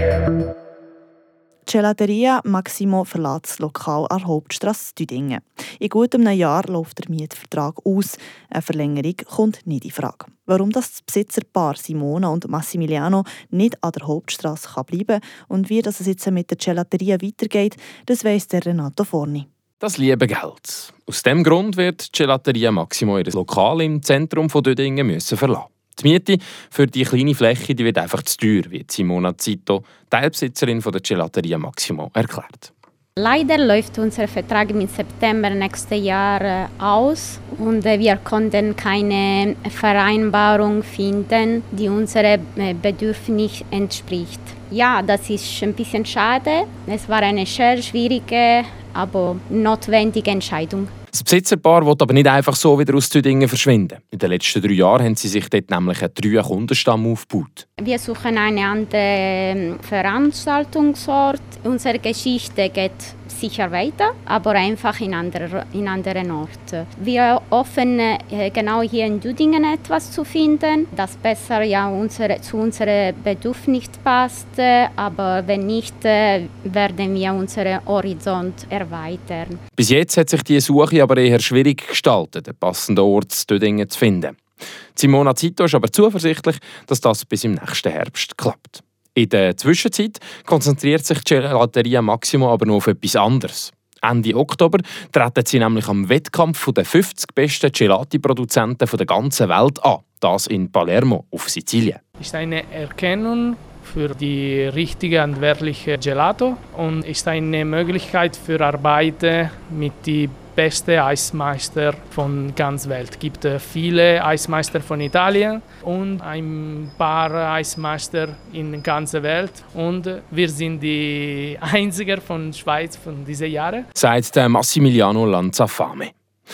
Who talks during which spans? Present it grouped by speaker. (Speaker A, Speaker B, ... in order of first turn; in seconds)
Speaker A: 1.7-19.4
Speaker B: 19.8-32.7, 51.1-57.6, 79.8-84.4, 85.0-102.0, 123.9-126.1
Speaker C: 33.2-50.9, 57.8-79.6
Speaker D: 102.2-123.8